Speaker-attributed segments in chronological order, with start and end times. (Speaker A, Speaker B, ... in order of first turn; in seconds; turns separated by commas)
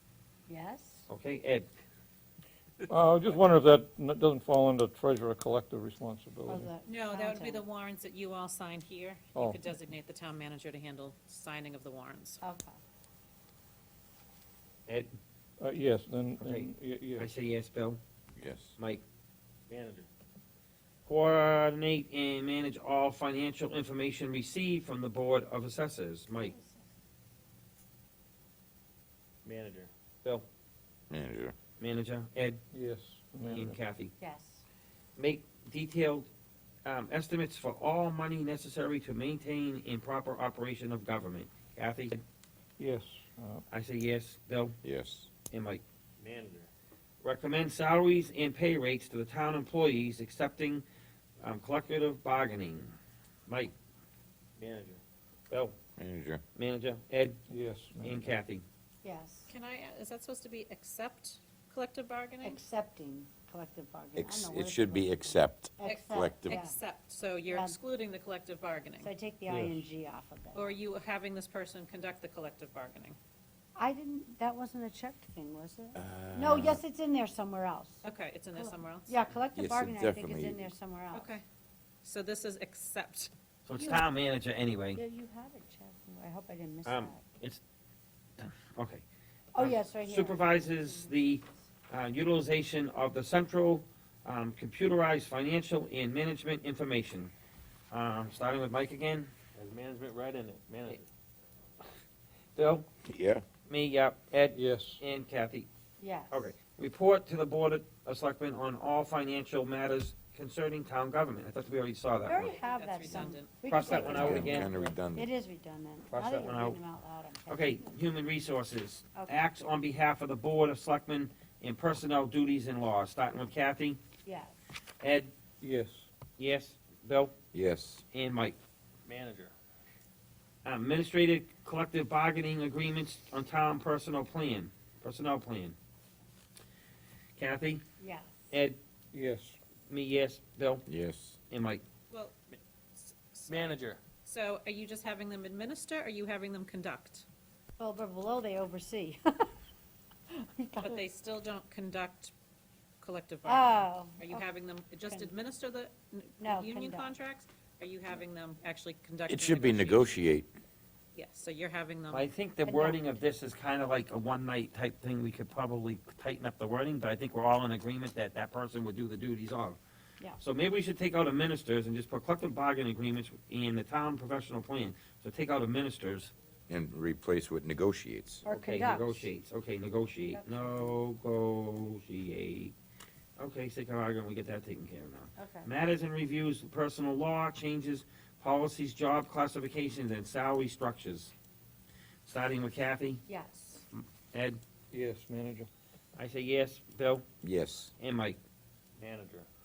Speaker A: 0.5-1.1, Speaker B: 1.1-1.7, Speaker C: 2.9-6.7, Speaker A: 6.5-7.6, Speaker D: 6.9-12.4, Speaker C: 9.3-9.6, Speaker A: 12.4-12.8, Speaker C: 15.6-17.3, Speaker B: 16.4-18.0, Speaker E: 18.4-18.8, Speaker B: 18.8-19.0, Speaker F: 19.7-20.1, Speaker B: 21.1-26.5, Speaker A: 26.5-26.9, Speaker F: 29.4-29.9, Speaker E: 31.1-31.5, Speaker B: 31.8-32.6, Speaker C: 32.7-33.8, Speaker B: 33.5-34.1, Speaker A: 34.2-34.6, Speaker B: 35.1-36.3, Speaker B: 36.8-42.2, Speaker C: 42.8-43.6, Speaker B: 43.7-44.8, Speaker E: 44.8-45.3, Speaker B: 45.5-45.8, Speaker F: 46.2-46.7, Speaker B: 47.2-50.8, Speaker B: 51.4-52.9, Speaker B: 53.5-53.7, Speaker F: 54.6-55.0, Speaker B: 55.5-55.7, Speaker E: 56.0-56.4, Speaker B: 56.5-57.4, Speaker C: 57.5-58.3, Speaker B: 58.0-58.6, Speaker A: 59.0-59.5, Speaker D: 59.5-62.6, Speaker A: 62.4-66.8, Speaker E: 64.2-66.6, Speaker D: 65.8-69.1, Speaker A: 67.5-67.8, Speaker A: 69.0-70.8, Speaker C: 69.5-69.8, Speaker D: 70.5-73.2, Speaker A: 73.8-81.4, Speaker E: 75.9-76.8, Speaker D: 78.0-79.1, Speaker E: 79.5-80.7, Speaker D: 81.1-81.4, Speaker D: 82.0-83.3, Speaker B: 83.7-85.0, Speaker A: 83.8-84.1, Speaker A: 84.9-87.2, Speaker B: 86.8-87.6, Speaker B: 88.4-89.0, Speaker A: 89.5-91.7, Speaker B: 89.5-97.3, Speaker B: 97.9-99.3, Speaker F: 99.5-101.1, Speaker B: 102.5-102.9, Speaker E: 103.0-103.4, Speaker B: 103.7-105.7, Speaker C: 104.5-105.0, Speaker A: 106.0-106.5, Speaker B: 106.3-112.5, Speaker A: 112.2-117.9, Speaker D: 112.4-113.5, Speaker B: 113.1-114.7, Speaker E: 113.9-115.3, Speaker B: 116.1-116.8, Speaker B: 117.5-124.0, Speaker A: 124.2-124.5, Speaker B: 125.0-125.3, Speaker C: 125.6-126.1, Speaker B: 126.4-127.3, Speaker E: 127.5-128.0, Speaker B: 128.1-128.6, Speaker F: 129.1-129.5, Speaker B: 130.6-135.8, Speaker B: 137.4-137.8, Speaker A: 138.0-138.3, Speaker B: 138.5-138.8, Speaker C: 139.1-139.6, Speaker B: 139.9-140.8, Speaker E: 140.9-141.4, Speaker B: 141.5-141.8, Speaker D: 142.9-147.2, Speaker F: 143.5-144.0, Speaker A: 147.8-149.5, Speaker A: 150.3-151.0, Speaker D: 150.8-152.3, Speaker D: 153.0-160.2, Speaker A: 153.4-154.4, Speaker A: 155.0-155.3, Speaker A: 156.4-157.1, Speaker E: 159.3-160.5, Speaker D: 161.1-162.3, Speaker B: 162.1-169.8, Speaker A: 162.6-163.0, Speaker B: 170.4-176.3, Speaker E: 176.7-178.4, Speaker A: 178.4-179.3, Speaker B: 178.4-182.7, Speaker A: 180.3-180.9, Speaker B: 183.4-191.3, Speaker A: 185.4-185.7, Speaker B: 192.2-193.2, Speaker A: 193.3-193.8, Speaker B: 193.9-194.6, Speaker C: 194.9-195.7, Speaker B: 196.2-197.2, Speaker E: 197.4-197.9, Speaker B: 198.0-198.4, Speaker F: 199.0-199.5